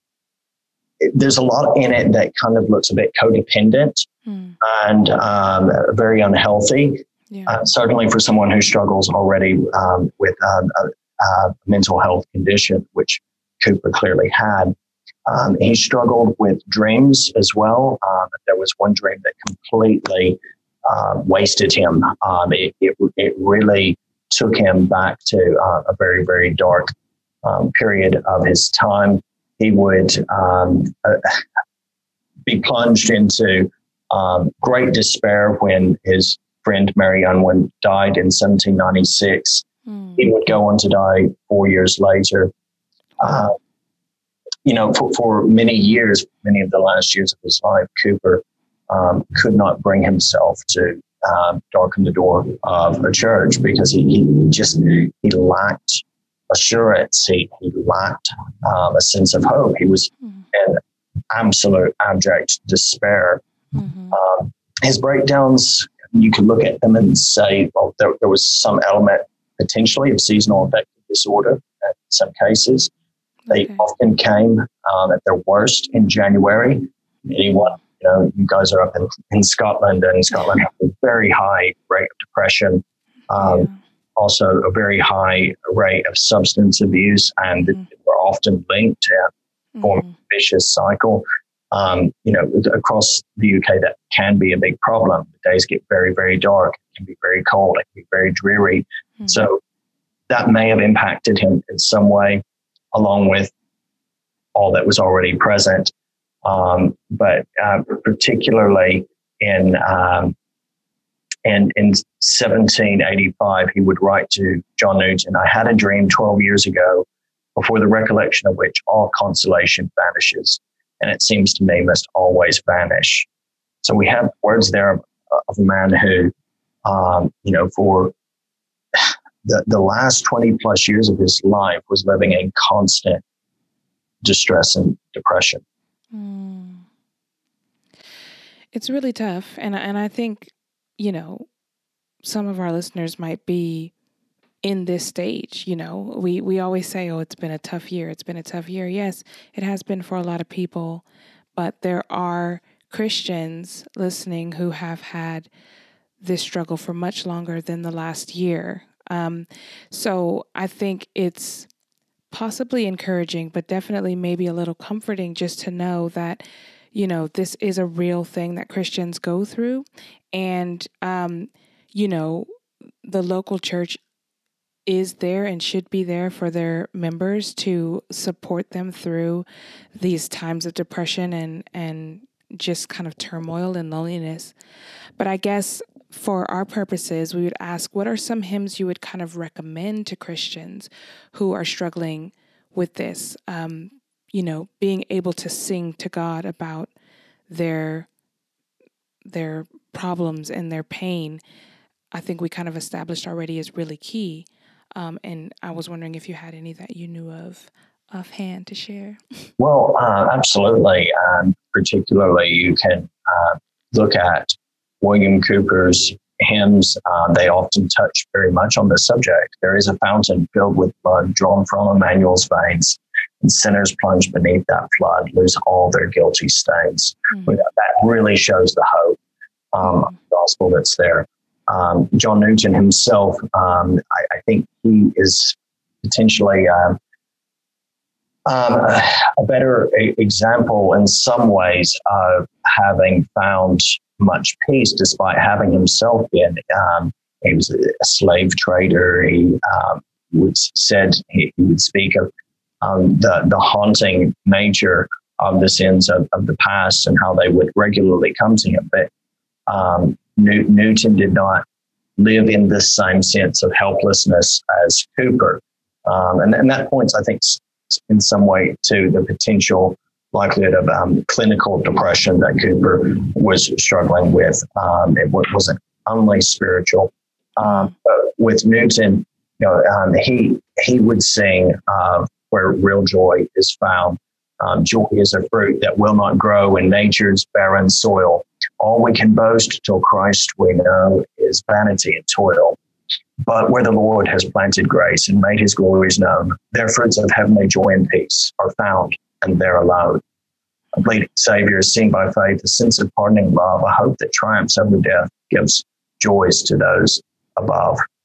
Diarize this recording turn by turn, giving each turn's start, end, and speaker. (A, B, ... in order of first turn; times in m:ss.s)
0:01.0-0:04.1 A
0:04.3-0:04.6 B
0:04.6-0:14.8 A
0:07.3-0:07.6 B
0:15.3-0:26.9 A
0:27.4-0:31.4 A
0:32.5-0:39.6 A
0:39.9-0:40.2 B
0:40.2-0:42.5 A
0:43.2-0:43.6 A
0:44.6-1:03.4 A
1:03.7-1:04.2 B
1:04.1-1:12.9 A
1:13.5-1:13.8 B
1:13.5-1:29.3 A
1:23.4-1:23.8 B
1:29.8-1:30.1 B
1:29.8-1:39.6 A
1:40.3-1:43.5 A
1:44.6-1:45.9 A
1:46.4-1:50.4 A
1:51.4-2:03.3 A
2:03.8-2:06.3 A
2:06.8-2:08.1 A
2:09.0-2:13.2 A
2:14.2-2:15.6 A
2:16.1-2:16.8 B
2:18.7-2:21.5 B
2:22.2-2:23.9 B
2:24.6-2:35.5 B
2:36.2-2:41.7 B
2:42.3-2:52.5 B
2:53.0-2:54.0 B
2:54.9-3:04.5 B
3:05.2-3:16.9 B
3:17.5-3:18.1 B
3:19.3-3:21.4 B
3:22.1-3:29.2 B
3:29.6-3:49.2 A
3:49.7-3:57.0 A
3:58.5-4:12.3 A
4:12.8-4:19.1 A
4:19.7-4:21.6 A
4:22.2-4:52.8 A
4:53.4-5:00.2 A
5:01.0-5:08.0 A